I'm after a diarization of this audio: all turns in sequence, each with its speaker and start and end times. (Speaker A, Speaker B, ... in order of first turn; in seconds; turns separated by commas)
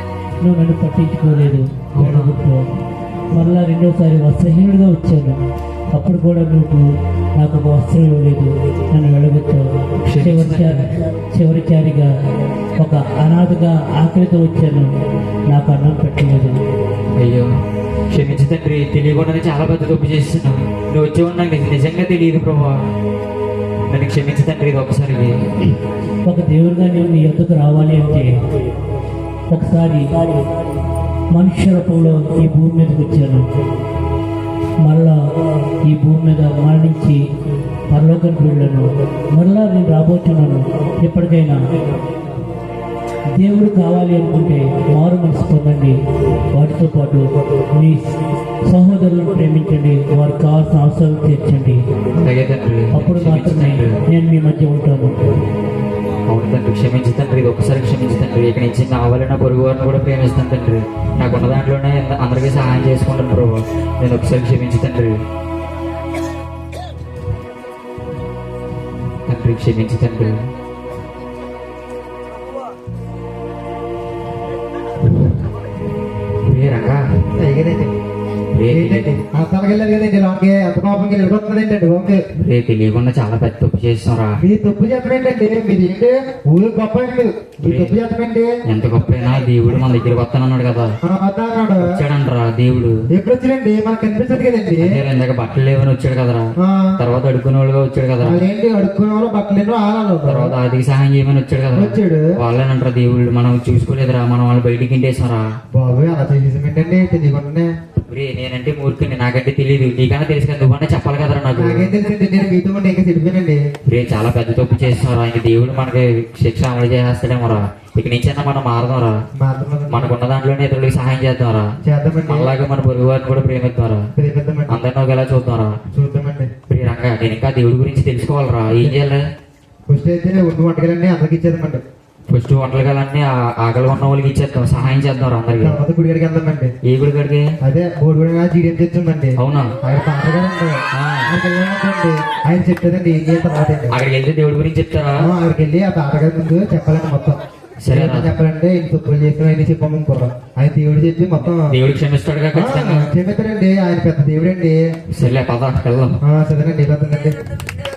Speaker A: 0.4-2.7, Speaker B: 1.9-2.4, Speaker A: 3.3-5.4, Speaker A: 5.9-12.1, Speaker B: 10.1-10.9, Speaker A: 12.8-14.9, Speaker A: 15.5-16.6, Speaker B: 17.2-17.5, Speaker B: 18.1-22.8, Speaker B: 23.9-25.5, Speaker A: 26.2-28.4, Speaker A: 29.5-30.1, Speaker A: 31.3-33.5, Speaker A: 34.8-35.3, Speaker A: 35.8-37.2, Speaker A: 37.9-41.6, Speaker A: 43.4-46.0, Speaker A: 46.5-48.1, Speaker A: 48.7-51.8, Speaker B: 52.2-54.0, Speaker A: 52.9-55.2, Speaker B: 56.3-65.2, Speaker B: 69.3-70.5, Speaker B: 76.4-77.0, Speaker C: 77.4-78.0, Speaker B: 78.5-79.1, Speaker C: 78.7-82.2, Speaker B: 82.4-84.4, Speaker C: 84.4-88.5, Speaker B: 87.6-88.0, Speaker B: 88.7-91.0, Speaker C: 91.0-92.0, Speaker B: 91.8-93.0, Speaker C: 93.1-95.0, Speaker B: 94.8-98.4, Speaker C: 96.6-97.0, Speaker C: 98.2-100.5, Speaker B: 100.3-105.5, Speaker C: 101.7-102.3, Speaker C: 105.7-107.7, Speaker B: 108.1-111.9, Speaker C: 111.5-113.6, Speaker B: 113.9-119.2, Speaker C: 119.4-120.1, Speaker B: 119.9-121.7, Speaker C: 121.8-122.5, Speaker B: 122.3-124.1, Speaker C: 124.2-124.8, Speaker B: 124.7-125.8, Speaker C: 125.9-126.5, Speaker B: 126.7-129.2, Speaker C: 129.9-131.8, Speaker B: 132.3-135.8, Speaker C: 135.6-136.7, Speaker B: 136.8-137.5, Speaker C: 137.6-144.0, Speaker B: 139.4-139.7, Speaker B: 140.9-141.3, Speaker B: 143.9-145.3, Speaker C: 145.2-151.8, Speaker B: 147.8-148.3, Speaker B: 151.7-153.1, Speaker C: 152.5-154.9, Speaker B: 155.1-156.2, Speaker C: 156.2-157.4